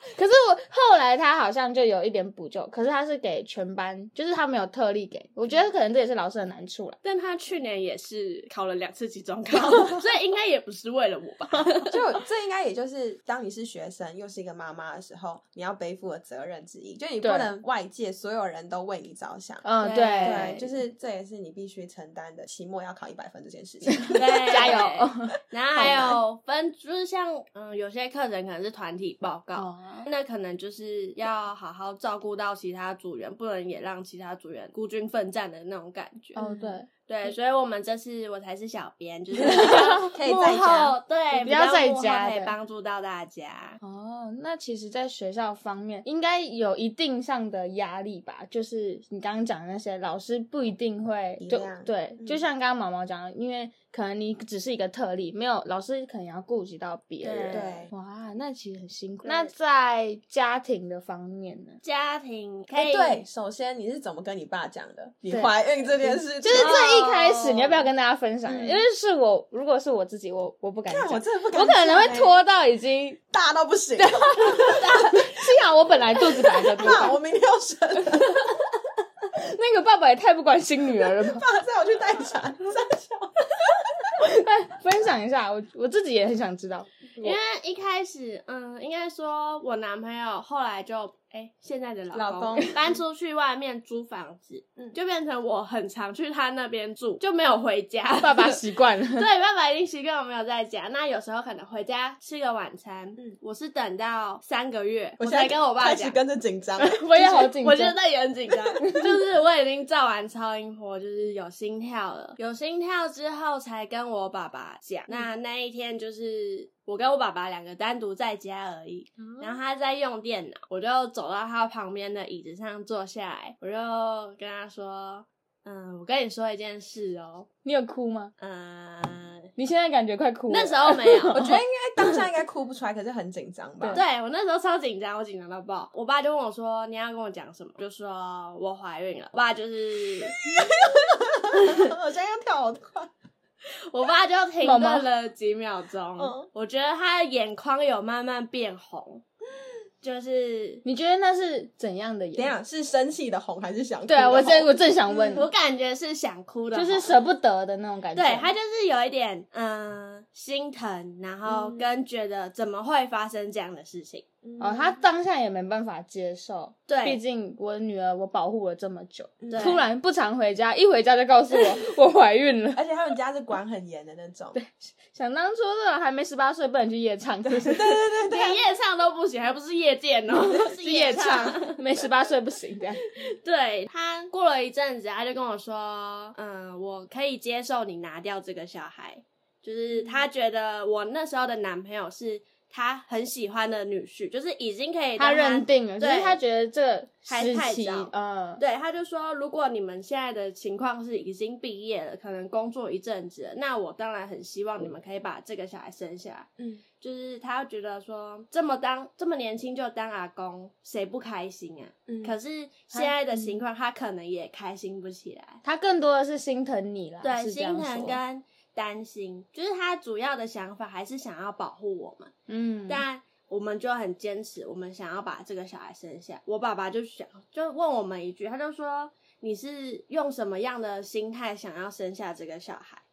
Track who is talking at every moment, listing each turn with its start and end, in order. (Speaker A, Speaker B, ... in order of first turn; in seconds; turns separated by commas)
Speaker A: 0.1-7.0, Speaker B: 7.0-12.0, Speaker C: 9.6-10.0, Speaker C: 11.9-24.8, Speaker A: 17.2-17.5, Speaker A: 19.6-20.7, Speaker B: 19.8-20.6, Speaker A: 23.9-26.1, Speaker B: 24.1-36.5, Speaker C: 25.8-26.2, Speaker A: 29.6-30.1, Speaker A: 36.4-36.9, Speaker C: 36.4-36.8, Speaker B: 37.0-43.8, Speaker C: 39.5-41.0, Speaker A: 39.6-39.9, Speaker A: 41.3-42.5, Speaker A: 43.8-61.8, Speaker C: 51.4-52.5, Speaker B: 57.2-57.9, Speaker C: 57.5-57.9, Speaker B: 59.2-59.5, Speaker B: 61.8-63.2, Speaker C: 62.7-66.8, Speaker A: 65.3-73.2, Speaker B: 66.6-67.9, Speaker C: 68.5-68.9, Speaker C: 70.9-72.4, Speaker C: 73.3-75.2, Speaker A: 74.0-77.2, Speaker B: 74.7-75.2, Speaker C: 76.4-78.5, Speaker A: 79.3-81.5, Speaker C: 81.0-84.1, Speaker A: 84.2-87.4, Speaker B: 87.2-106.2, Speaker C: 92.1-93.0, Speaker A: 98.2-99.3, Speaker C: 105.2-106.9, Speaker B: 106.8-127.5, Speaker A: 106.9-108.0, Speaker A: 108.8-109.1, Speaker A: 127.7-128.3, Speaker B: 128.4-129.5, Speaker A: 129.6-132.2, Speaker B: 130.5-131.4, Speaker C: 131.3-134.0, Speaker B: 133.9-140.5, Speaker C: 140.4-143.1, Speaker B: 141.6-141.9, Speaker B: 143.9-149.2, Speaker A: 144.6-145.1, Speaker C: 146.2-146.5, Speaker B: 150.0-150.8, Speaker A: 150.8-152.5, Speaker C: 152.3-155.4, Speaker A: 154.1-155.5, Speaker B: 155.3-157.2, Speaker A: 156.7-158.5, Speaker B: 158.2-164.3, Speaker C: 161.5-161.9, Speaker C: 164.4-165.0, Speaker A: 164.6-172.8, Speaker B: 166.9-167.2, Speaker C: 169.4-169.8, Speaker B: 169.5-169.8, Speaker C: 172.8-174.6, Speaker A: 174.6-177.9, Speaker C: 177.5-178.6, Speaker B: 178.3-181.8, Speaker A: 180.8-183.0, Speaker B: 183.2-196.4, Speaker A: 195.2-198.6, Speaker B: 197.3-206.5, Speaker C: 206.6-206.8, Speaker B: 207.0-215.6, Speaker C: 212.1-212.4, Speaker A: 212.9-213.4, Speaker A: 215.6-218.2, Speaker B: 217.2-222.3, Speaker A: 222.5-223.0, Speaker B: 222.9-233.0